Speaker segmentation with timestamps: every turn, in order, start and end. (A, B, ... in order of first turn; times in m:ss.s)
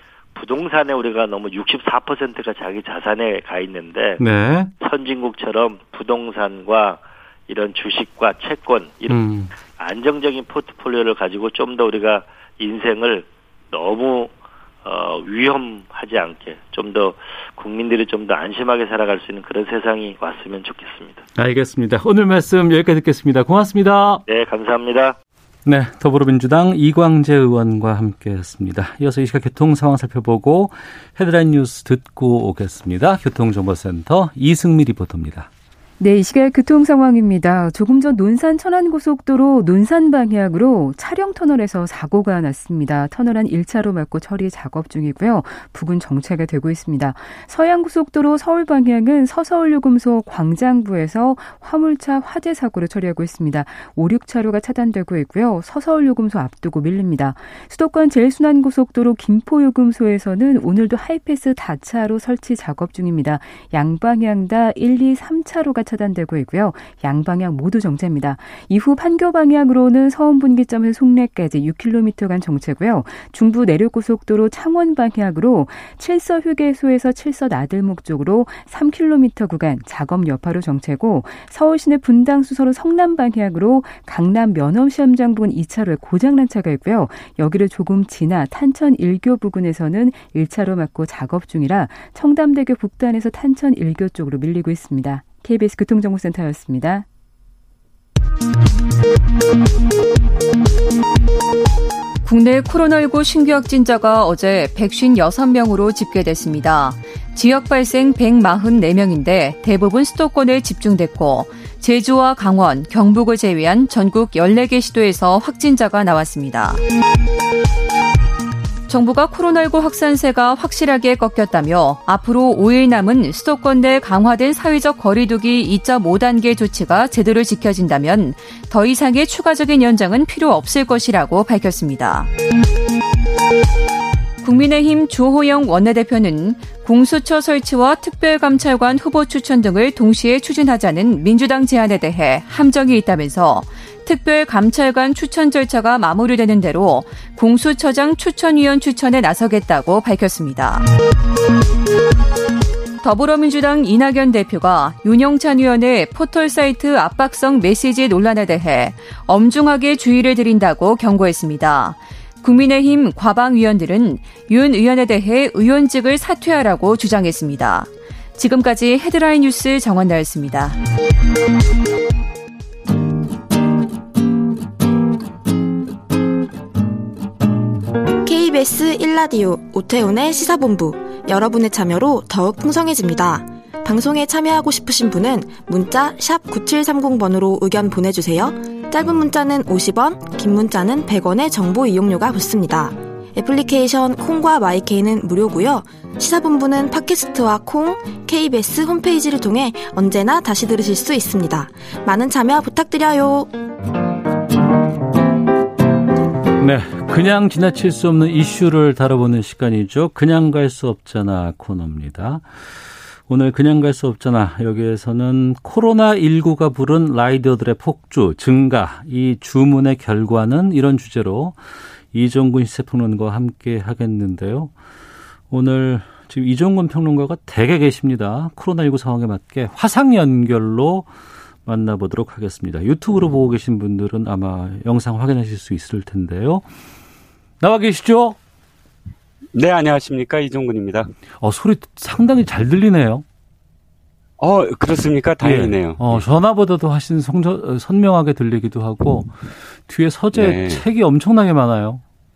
0:00.3-0:04.2 A
0:04.2-0:04.7 B
0:04.8-0:09.2 A
0:09.1-0:09.5 B
0:09.7-0:14.3 A
0:14.8-0:21.2 A
0:21.4-0:24.2 B
0:24.2-0:25.2 A
0:25.6-0:35.5 B
0:36.0-1:37.0 C
1:42.2-1:56.8 D
1:58.9-2:12.3 D
2:14.4-2:30.9 D
2:33.0-2:50.8 D
2:58.2-3:23.5 E
3:26.6-3:32.4 B
3:33.3-3:41.6 B
3:42.1-3:44.7 B
3:45.5-3:51.1 B
3:51.6-3:56.6 B
3:57.6-3:58.4 B
3:59.5-4:01.1 F
4:01.4-4:03.2 B
4:04.4-4:06.2 F
4:05.4-4:09.3 B
4:09.9-4:12.0 B
4:10.3-4:10.8 F